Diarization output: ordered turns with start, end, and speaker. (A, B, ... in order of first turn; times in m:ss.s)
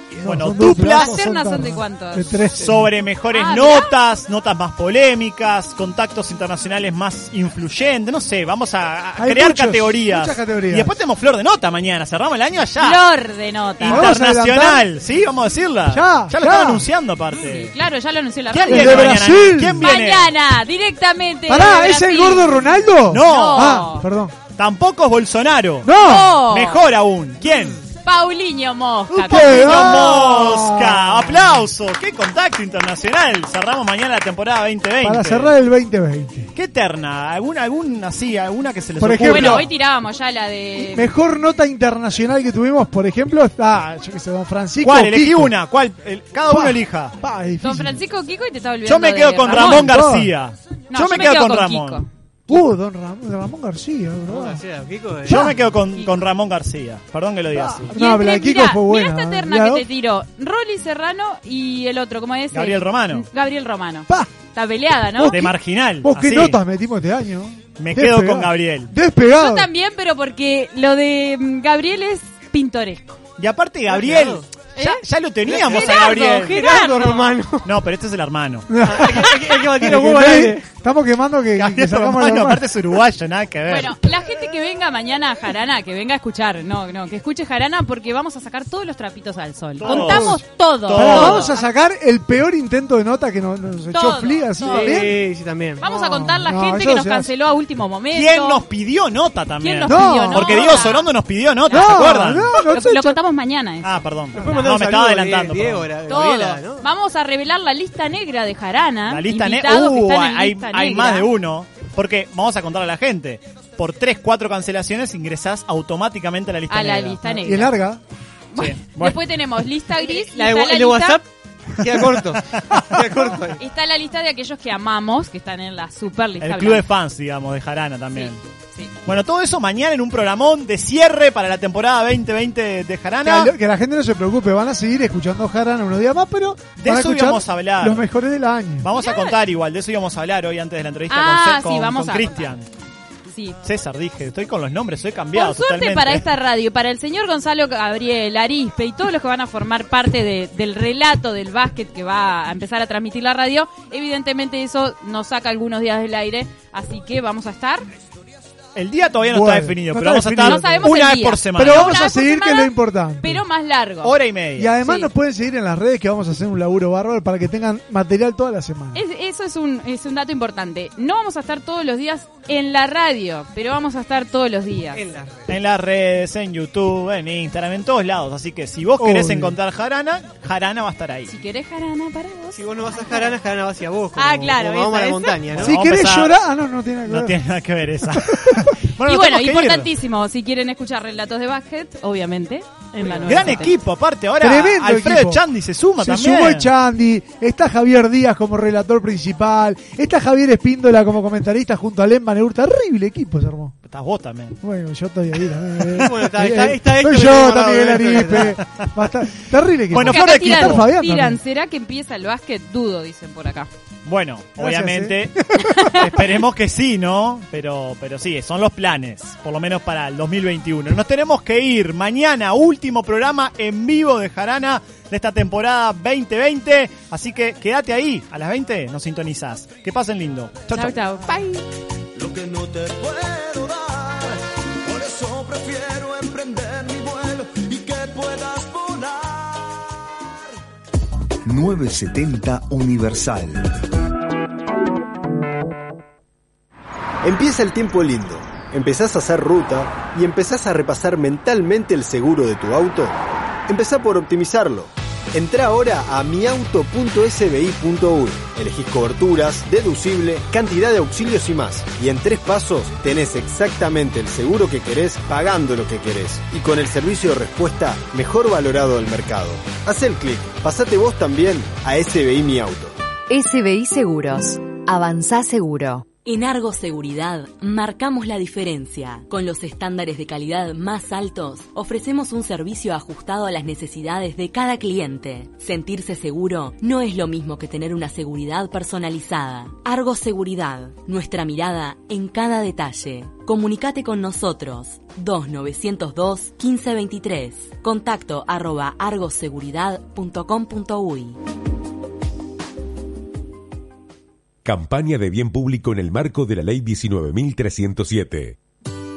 0:00.2-0:02.9 A
0:00.2-0:01.2 B
0:00.6-0:02.4 C
0:02.6-0:13.0 B
0:03.3-0:04.0 C
0:09.2-0:10.9 A
0:12.8-0:14.1 C
0:13.8-0:17.7 B
0:13.8-0:14.9 A
0:15.9-0:16.9 A
0:17.3-0:19.2 C
0:18.5-0:20.3 B
0:18.7-0:19.9 A
0:19.8-0:24.0 C
0:21.5-0:24.4 A
0:23.1-0:23.8 B
0:24.6-0:27.8 B
0:25.8-0:26.4 A
0:25.9-0:26.8 C
0:28.0-0:30.0 C
0:29.1-0:31.6 A
0:29.3-0:35.5 B
0:35.0-0:36.5 A
0:36.5-0:39.7 B
0:39.0-0:39.7 A
0:39.2-0:41.1 C
0:40.8-0:45.6 A
0:44.8-0:47.2 B
0:46.5-0:48.0 A
0:47.6-0:50.0 C
0:48.9-0:52.0 B
0:49.5-0:50.3 A
0:50.9-0:52.6 C
0:52.5-0:54.6 A
0:54.3-0:55.5 D
0:55.3-0:55.5 A
0:55.3-0:57.9 B
0:57.5-0:59.9 A
0:58.0-1:05.4 C
1:02.5-1:03.2 B
1:05.1-1:09.7 A
1:05.3-1:06.6 B
1:07.8-1:08.9 B
1:09.3-1:13.2 C
1:13.4-1:16.6 B
1:13.9-1:14.4 D
1:14.8-1:15.0 C
1:15.5-1:17.7 D
1:15.6-1:17.3 C
1:17.6-1:18.7 B
1:18.7-1:22.6 A
1:18.8-1:20.6 D
1:21.6-1:24.0 B
1:23.7-1:31.6 C
1:29.8-1:31.5 B
1:29.8-1:35.2 A
1:33.9-1:35.0 C
1:34.7-1:35.8 D
1:35.8-1:38.6 C
1:35.8-1:37.3 A
1:38.1-1:42.6 B
1:39.6-1:41.1 C
1:39.9-1:40.8 A
1:41.7-1:44.0 C
1:41.7-1:43.2 A
1:43.8-1:45.9 B
1:44.4-1:46.8 D
1:46.1-1:51.3 C
1:49.1-1:57.2 B
1:56.7-1:57.8 C
1:57.3-1:58.0 A
1:58.5-2:01.2 C
1:58.6-1:59.2 B
2:00.0-2:01.3 D
2:01.8-2:03.6 D
2:03.5-2:06.8 C
2:06.4-2:08.4 B
2:08.2-2:08.9 C
2:09.1-2:13.5 B
2:13.2-2:18.9 A
2:16.8-2:18.1 B
2:18.8-2:22.7 B
2:19.0-2:19.4 C
2:21.1-2:22.5 C
2:23.3-2:23.6 C
2:23.6-2:26.3 B
2:25.3-2:37.9 C
2:38.8-2:42.0 B
2:39.2-2:41.0 A
2:40.4-2:44.1 C
2:41.6-2:43.4 A
2:44.0-2:44.7 B
2:44.6-2:49.0 A
2:44.8-2:45.1 C
2:48.9-2:55.0 C
2:54.9-2:55.4 D
2:55.5-3:01.3 B
2:59.0-2:59.6 A
3:01.3-3:03.4 C
3:02.5-3:05.8 D
3:04.2-3:05.4 C
3:05.5-3:06.4 B
3:05.6-3:07.4 A
3:07.1-3:09.9 B
3:08.4-3:08.6 A
3:09.1-3:13.8 C
3:13.0-3:13.3 D
3:13.3-3:16.7 B
3:14.4-3:15.4 A
3:16.0-3:23.7 A
3:23.8-3:24.6 B
3:24.6-3:31.4 A
3:26.0-3:28.6 D
3:29.9-3:30.9 B
3:30.0-3:33.7 C
3:34.0-3:51.0 B
3:34.6-3:35.9 A
3:50.7-3:51.6 C
3:52.2-4:00.4 E
4:01.4-4:03.8 F
4:07.2-4:33.0 G
4:33.3-4:36.0 H
4:36.3-5:01.4 I
5:04.6-5:08.6 J